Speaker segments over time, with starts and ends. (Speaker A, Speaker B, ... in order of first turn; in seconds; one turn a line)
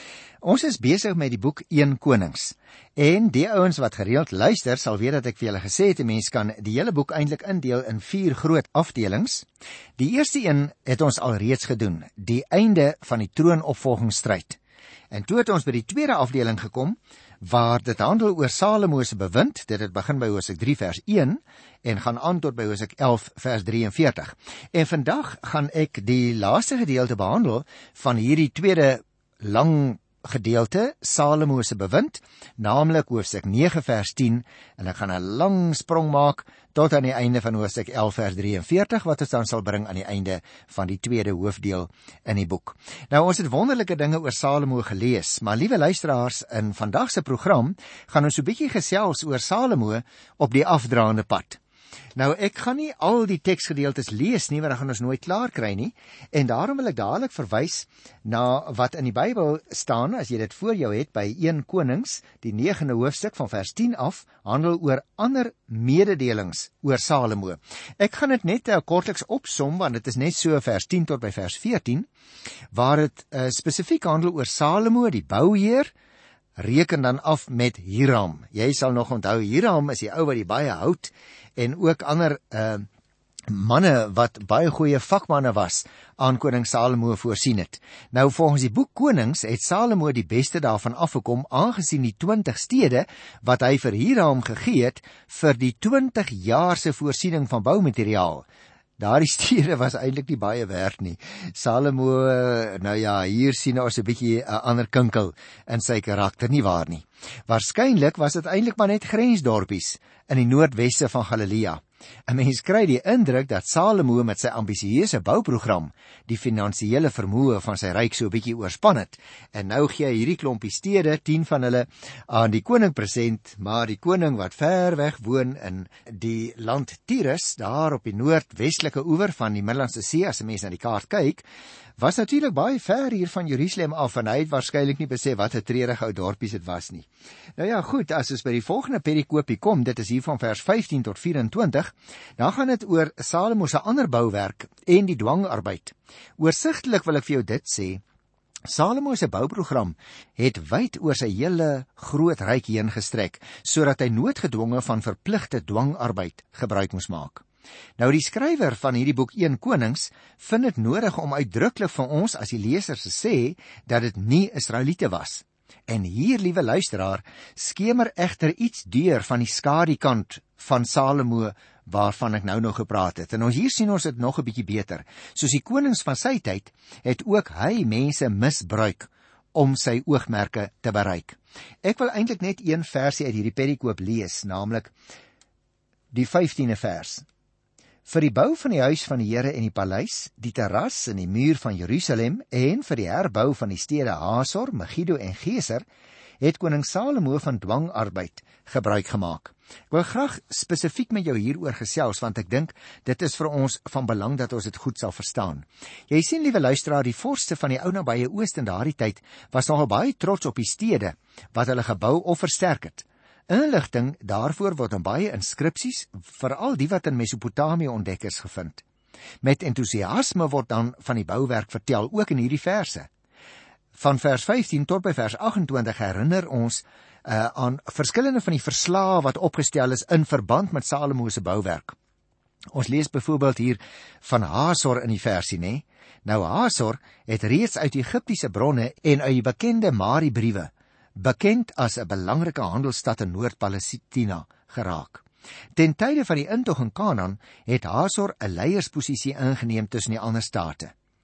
Speaker A: 0.4-9.5
Speaker A: 10.0-14.6
Speaker A: 15.1-51.6
Speaker A: 52.1-72.1
Speaker A: 72.7-75.9
Speaker A: 76.6-82.8
Speaker A: 83.5-98.5
Speaker A: 99.0-131.4
Speaker A: 132.0-148.0
Speaker A: 148.7-157.4
Speaker A: 158.0-184.9
Speaker A: 186.1-187.2
Speaker A: 188.0-195.8
Speaker A: 196.4-218.8
Speaker A: 219.4-223.1
Speaker A: 223.9-231.9
Speaker A: 232.7-245.2
Speaker A: 245.7-250.9